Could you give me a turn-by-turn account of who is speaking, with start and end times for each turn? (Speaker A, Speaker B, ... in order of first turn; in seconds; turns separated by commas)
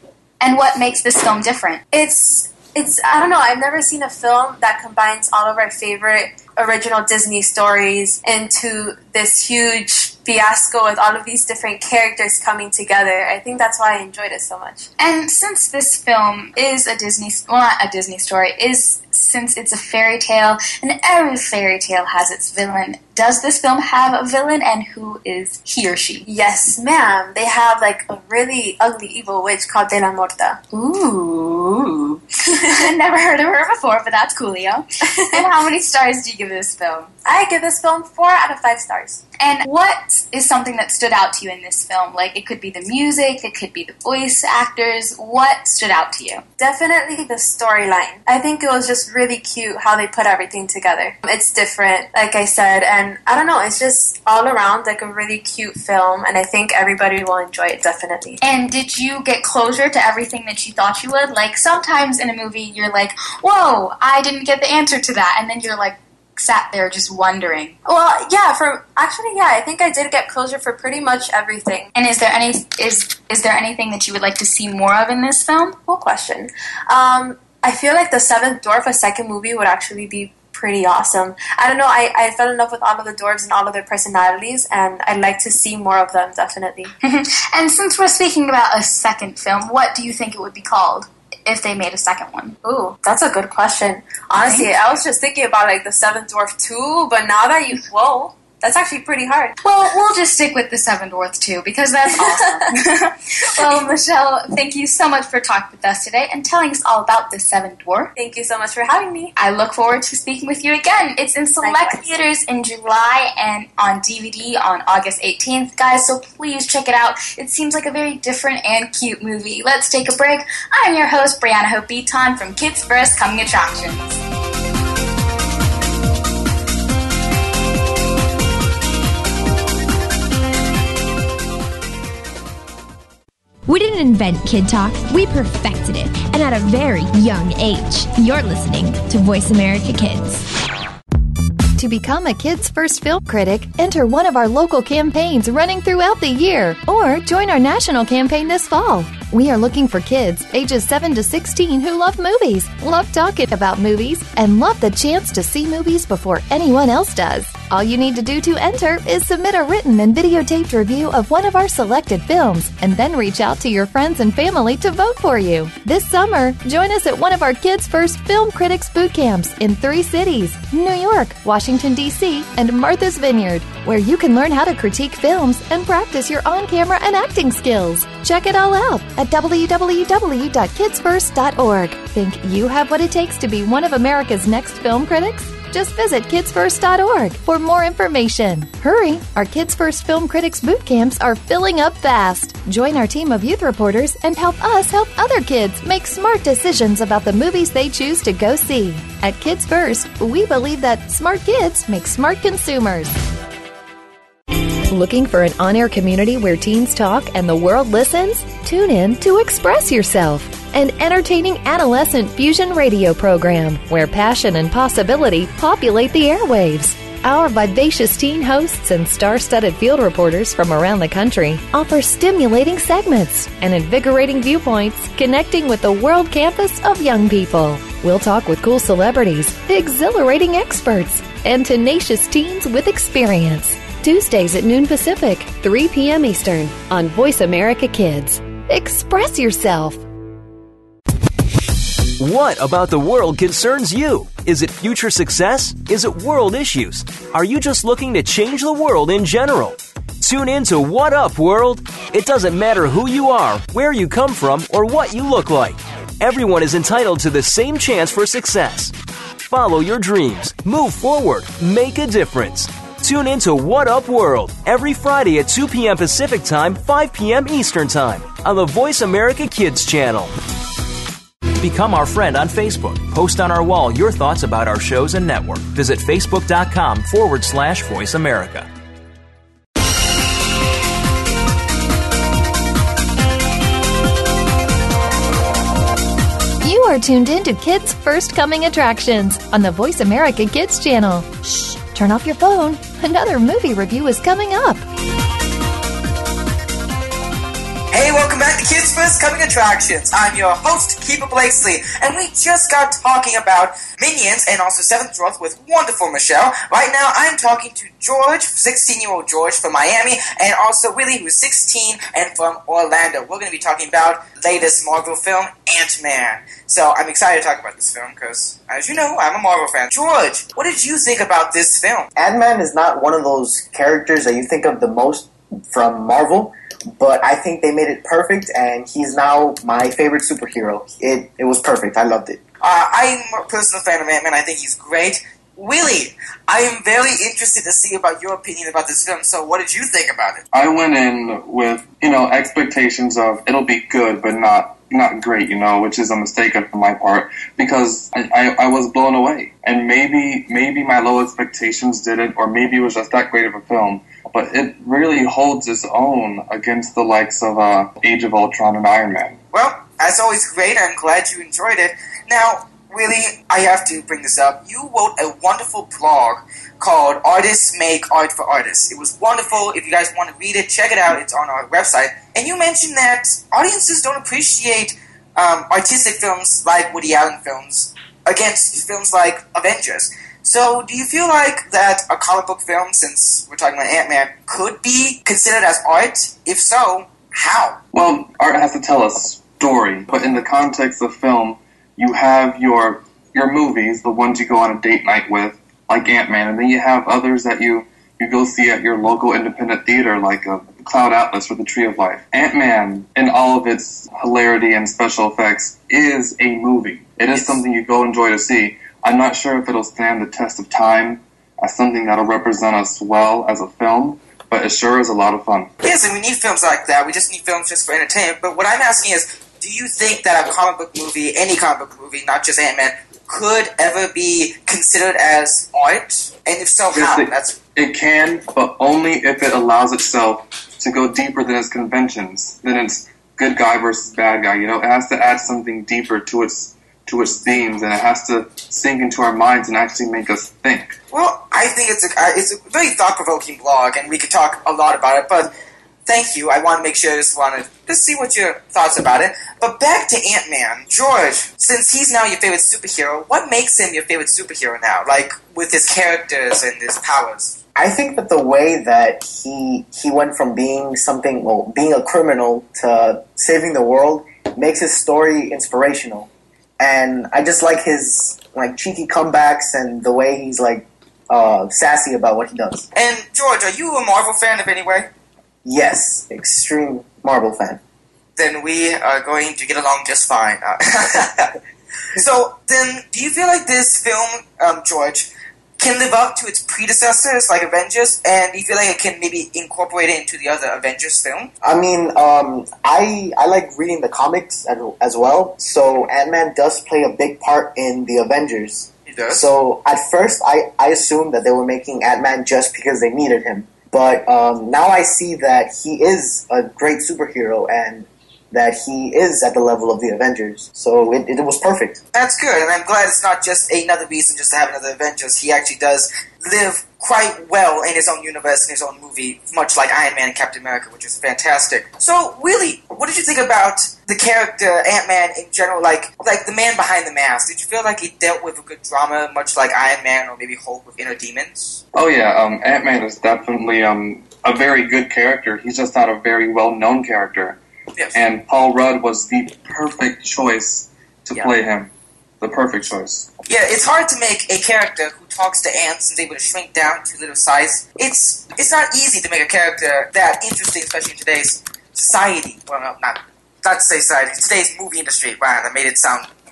Speaker A: 0.4-1.8, Speaker B: 1.9-14.9, Speaker A: 15.0-26.3, Speaker B: 26.3-30.6, Speaker A: 30.7-37.1, Speaker B: 32.5-32.9, Speaker B: 35.0-35.5, Speaker B: 37.2-39.2, Speaker A: 39.4-46.4, Speaker B: 46.6-58.4, Speaker A: 58.4-67.8, Speaker B: 67.9-71.9, Speaker A: 71.9-75.8, Speaker B: 75.9-86.9, Speaker A: 87.0-92.6, Speaker B: 92.6-99.5, Speaker A: 99.6-108.1, Speaker B: 102.1-102.8, Speaker B: 108.2-109.3, Speaker A: 109.4-124.2, Speaker B: 111.6-112.0, Speaker C: 133.7-140.5, Speaker D: 141.8-203.2, Speaker D: 204.9-240.0, Speaker E: 242.2-258.9, Speaker E: 259.5-270.3, Speaker E: 271.6-278.7, Speaker D: 286.6-291.3, Speaker D: 291.9-294.8, Speaker F: 297.9-322.1, Speaker G: 322.2-332.4, Speaker F: 332.6-340.4, Speaker H: 340.5-359.4, Speaker F: 359.5-387.8, Speaker H: 387.9-415.7, Speaker F: 407.3-407.6, Speaker F: 415.8-427.6, Speaker H: 426.9-441.0, Speaker F: 441.1-445.5, Speaker F: 446.1-457.6, Speaker G: 457.8-472.9, Speaker F: 472.9-475.1, Speaker G: 475.6-477.8, Speaker F: 478.4-481.5, Speaker F: 482.1-491.5, Speaker G: 491.6-512.0, Speaker F: 499.1-499.4, Speaker F: 512.1-531.8, Speaker H: 531.9-537.6, Speaker H: 538.1-541.9, Speaker H: 542.4-543.3, Speaker F: 543.5-556.3